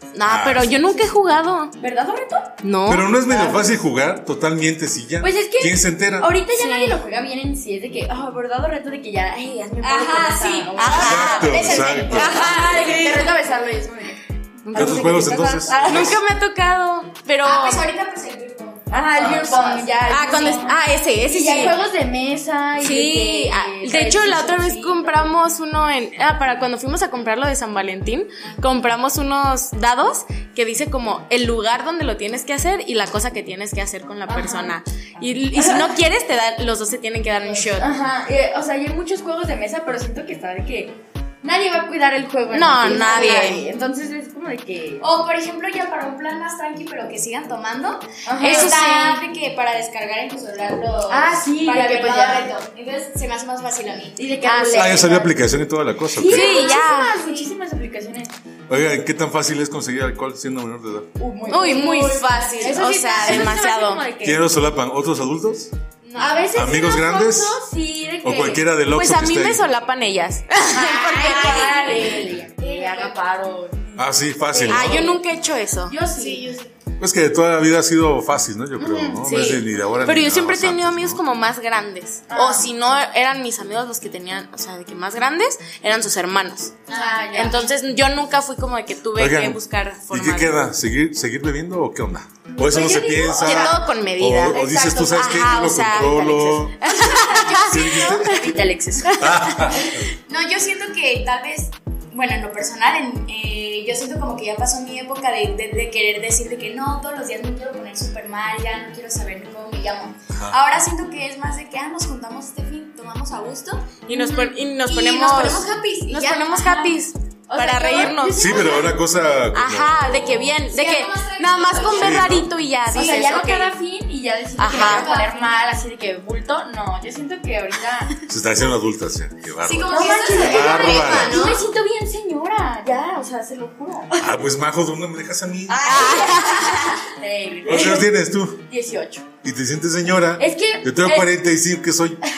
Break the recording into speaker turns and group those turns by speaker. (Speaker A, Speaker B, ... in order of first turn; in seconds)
Speaker A: 0.1-1.7, 2.6-3.1, 6.5-7.0, 10.8-13.1, 14.6-15.3, 15.8-17.9, 20.1-21.8, 22.8-37.9, 42.5-43.6, 48.4-49.2, 54.4-55.0, 56.2-57.1, 61.5-64.0, 68.9-72.2, 74.7-76.0, 79.2-90.6, 93.4-98.4, 99.0-99.8, 114.1-118.8, 119.5-123.7, 124.6-125.2, 135.8-136.8
Speaker B: 0.2-0.7, 2.9-6.3, 11.0-12.4, 14.7-16.1, 54.7-56.6, 58.7-61.1, 63.3-63.5, 64.2-65.7, 66.5-67.6, 68.2-69.6, 74.0-75.1, 77.0-81.2, 89.2-96.8, 97.5-98.6, 99.2-100.1, 110.3-110.6, 118.4-120.6, 121.9-122.5, 128.3-131.4, 134.2-136.0, 137.6-138.6, 139.4-142.2
Speaker C: 1.8-2.5, 3.2-3.6, 5.2-16.2, 18.9-25.3, 34.3-35.9, 37.4-45.1, 48.2-49.2, 51.1-52.5, 54.1-55.3, 56.1-58.3, 61.2-64.4, 66.2-68.7, 70.7-75.2, 75.9-76.5, 78.8-79.6, 82.3-82.7, 86.9-87.7, 92.5-93.9, 94.5-99.3, 117.5-119.0, 122.9-128.2, 129.9-134.3, 135.7-139.2, 140.4-141.3
Speaker D: 9.8-13.3, 17.4-20.0, 45.0-54.4, 62.3-62.7, 66.0-66.5, 71.0-73.2, 76.1-76.7, 86.9-87.3, 100.0-117.0, 120.7-122.3, 122.9-123.4, 124.7-125.6, 129.6-131.7, 135.9-137.0